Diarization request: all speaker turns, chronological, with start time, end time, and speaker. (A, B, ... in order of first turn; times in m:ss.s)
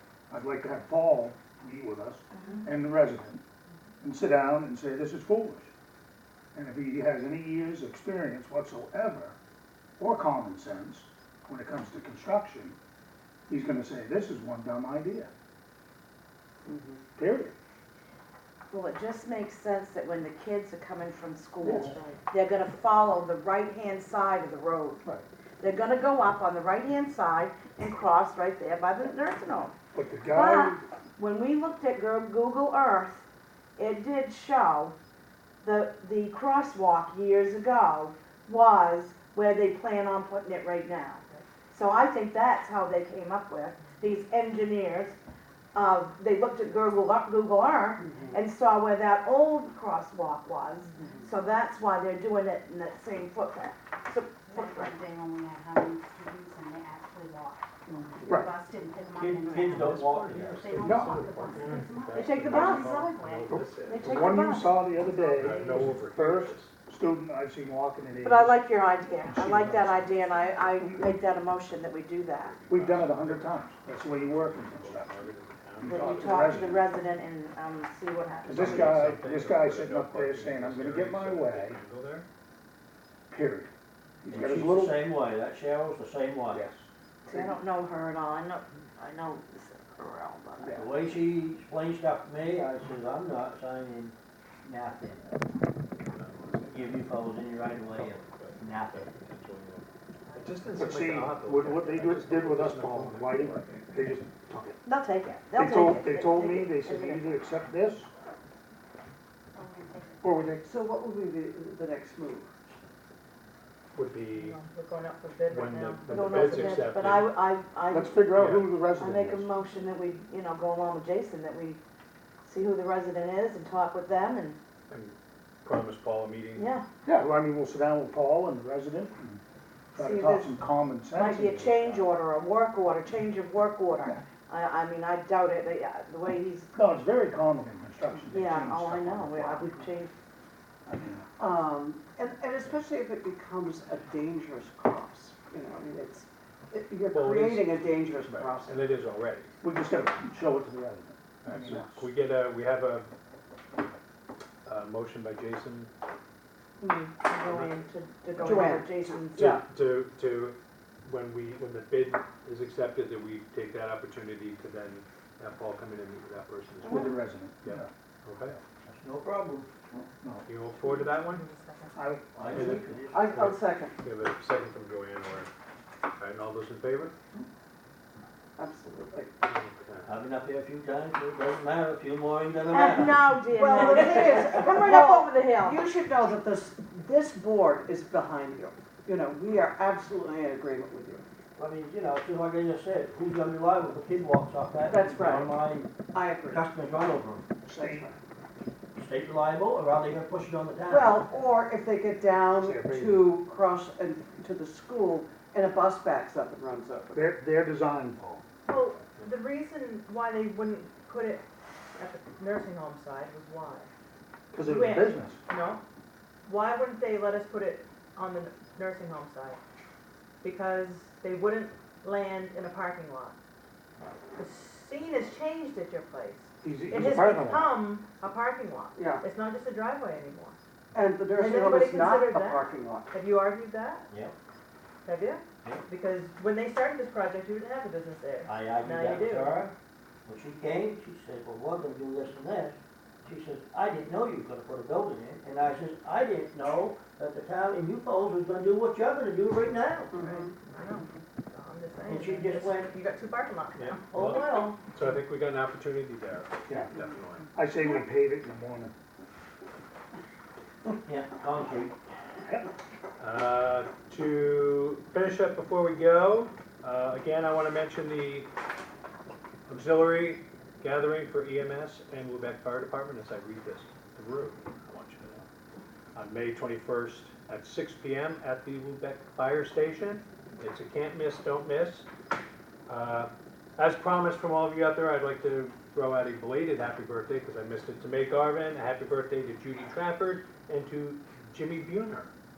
0:00.3-0:03.4 A
0:02.3-0:02.6 B
0:04.0-0:05.7 A
0:06.5-0:09.4 A
0:10.0-0:12.8 A
0:13.5-0:15.3 A
0:16.6-0:17.0 C
0:17.2-0:17.5 A
0:18.7-0:25.0 B
0:21.6-0:21.9 A
0:25.6-0:29.7 B
0:29.9-0:30.8 A
0:30.3-0:34.9 B
0:35.6-0:45.1 B
0:45.7-0:55.0 B
0:48.0-0:48.4 C
0:54.6-0:57.6 D
0:57.9-0:58.4 C
0:58.4-1:03.5 D
0:59.1-1:00.7 E
0:59.7-1:04.4 F
1:00.8-1:01.3 A
1:01.8-1:02.6 G
1:02.1-1:03.1 B
1:03.5-1:08.6 A
1:03.8-1:04.8 B
1:05.4-1:06.7 F
1:08.2-1:12.6 B
1:09.2-1:10.1 A
1:12.4-1:13.6 F
1:12.7-1:15.2 A
1:14.2-1:16.8 F
1:15.8-1:16.8 A
1:15.8-1:19.0 B
1:18.4-1:21.8 A
1:18.4-1:22.2 F
1:23.3-1:23.7 A
1:24.2-1:25.0 A
1:24.3-1:26.6 E
1:26.5-1:27.5 A
1:27.2-1:31.2 B
1:30.7-1:35.4 E
1:36.0-1:37.1 F
1:36.7-1:39.1 E
1:37.9-1:43.9 F
1:40.8-1:44.8 A
1:44.8-1:47.4 B
1:45.6-1:48.1 A
1:49.5-1:50.2 D
1:50.2-1:50.6 A
1:50.6-1:52.5 C
1:53.9-1:54.6 F
1:54.3-1:56.1 G
1:55.5-1:57.3 F
1:56.1-1:58.4 B
1:57.9-1:59.5 A
1:58.3-1:58.7 F
1:59.0-2:01.8 B
2:02.4-2:04.6 B
2:04.9-2:06.7 F
2:06.6-2:06.8 B
2:07.0-2:09.4 A
2:10.0-2:12.0 A
2:10.0-2:10.5 C
2:11.1-2:16.7 B
2:16.7-2:19.7 A
2:18.3-2:20.1 B
2:20.9-2:21.3 A
2:21.4-2:28.9 C
2:27.1-2:29.5 F
2:29.6-2:32.0 A
2:31.4-2:33.1 F
2:34.6-2:35.9 F
2:36.8-2:37.1 C
2:37.2-2:39.5 B
2:37.4-2:37.8 F
2:38.4-2:39.6 C
2:39.4-2:48.6 F
2:46.8-2:47.9 A
2:46.8-2:47.1 B
2:48.8-2:49.7 E
2:49.9-2:50.4 A
2:50.4-2:51.4 F
2:50.8-2:51.9 G
2:51.9-2:52.8 A
2:52.3-2:53.3 E
2:52.5-2:54.0 C
2:52.5-2:55.5 F
2:56.2-2:57.1 F
2:58.6-2:59.3 C
2:59.4-3:00.1 F
3:00.0-3:04.2 E
3:02.7-3:05.9 B
3:03.5-3:11.2 C
3:11.5-3:17.4 E
3:14.9-3:16.6 C
3:17.6-3:18.1 A
3:17.7-3:18.2 C
3:19.0-3:21.2 E
3:20.9-3:27.2 C
3:22.6-3:23.3 A
3:27.1-3:28.4 A
3:28.6-3:31.4 G
3:32.0-3:33.9 G
3:34.5-3:35.4 A
3:34.6-3:35.8 G
3:36.4-3:39.6 G
3:40.4-3:43.4 G
3:44.4-3:50.6 G
3:46.6-3:47.8 A
3:48.9-3:49.2 C
3:50.9-3:53.1 C
3:51.3-3:54.1 G
3:54.1-3:54.3 E
3:55.0-3:59.7 G
3:58.4-3:59.7 E
4:00.2-4:10.2 E
4:10.1-4:14.0 G
4:10.1-4:11.0 C
4:12.0-4:13.0 E
4:13.8-4:17.5 F
4:14.0-4:14.8 E
4:16.7-4:17.0 A
4:17.5-4:18.9 A
4:21.0-4:21.9 E
4:23.2-4:28.5 F
4:29.7-4:35.5 F
4:36.1-4:42.1 F
4:42.9-4:52.3 F